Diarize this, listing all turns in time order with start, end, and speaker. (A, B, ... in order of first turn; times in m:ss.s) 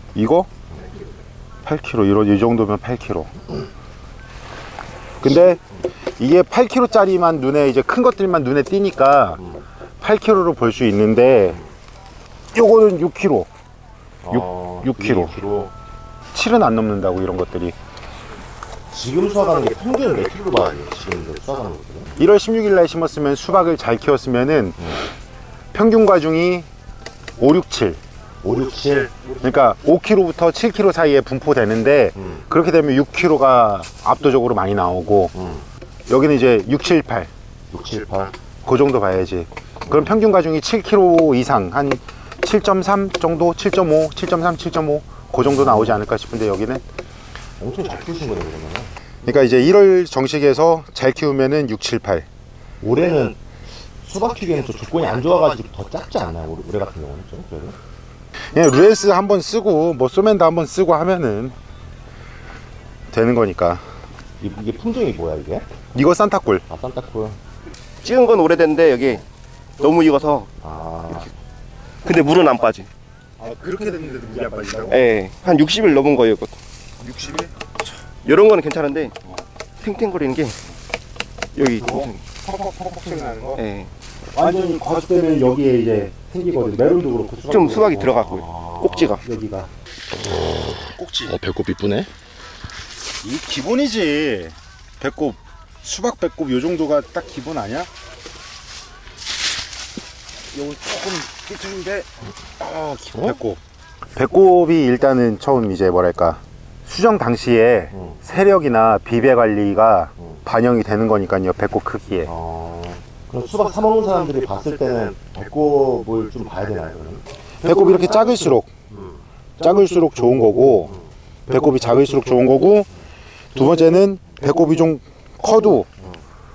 0:00.1-0:00.5 A
0:01.6-0:03.3 A
0:05.2-0:05.6 A
0:06.2-0:09.4 A
0:10.0-0:11.6 A
0:12.5-0:13.5 A
0:14.2-0:15.7 B
0:14.3-0:15.4 A
0:16.3-0:17.7 A
0:18.9-0:22.2 B
0:22.2-0:25.0 A
0:25.7-0:26.7 A
0:27.4-0:28.0 A
0:28.4-0:29.2 B
0:29.4-0:35.3 A
0:36.1-0:37.3 A
0:37.7-0:38.3 B
0:38.6-0:46.8 A
0:45.4-0:46.0 B
0:47.6-0:48.9 B
0:49.2-0:52.2 A
0:52.8-0:53.4 B
0:54.0-0:57.8 B
0:58.5-1:01.5 A
1:03.1-1:03.8 A
1:04.4-1:05.7 B
1:05.9-1:06.6 A
1:06.7-1:07.4 B
1:08.0-1:09.2 C
1:09.8-1:10.5 C
1:10.6-1:11.3 B
1:12.0-1:12.9 C
1:13.4-1:15.0 A
1:14.9-1:17.4 C
1:17.2-1:17.5 A
1:18.1-1:19.1 C
1:19.8-1:20.6 C
1:21.5-1:22.2 C
1:21.8-1:23.6 A
1:23.6-1:23.9 C
1:24.3-1:28.3 A
1:27.5-1:29.2 C
1:28.3-1:29.2 B
1:29.2-1:29.7 A
1:30.3-1:32.1 B
1:30.9-1:31.4 A
1:33.2-1:37.9 A
1:40.5-1:42.1 A
1:42.6-1:43.6 A
1:44.1-1:52.3 A
1:52.2-1:57.2 B
1:57.6-1:58.7 A
1:59.6-2:02.9 A
2:03.5-2:05.9 A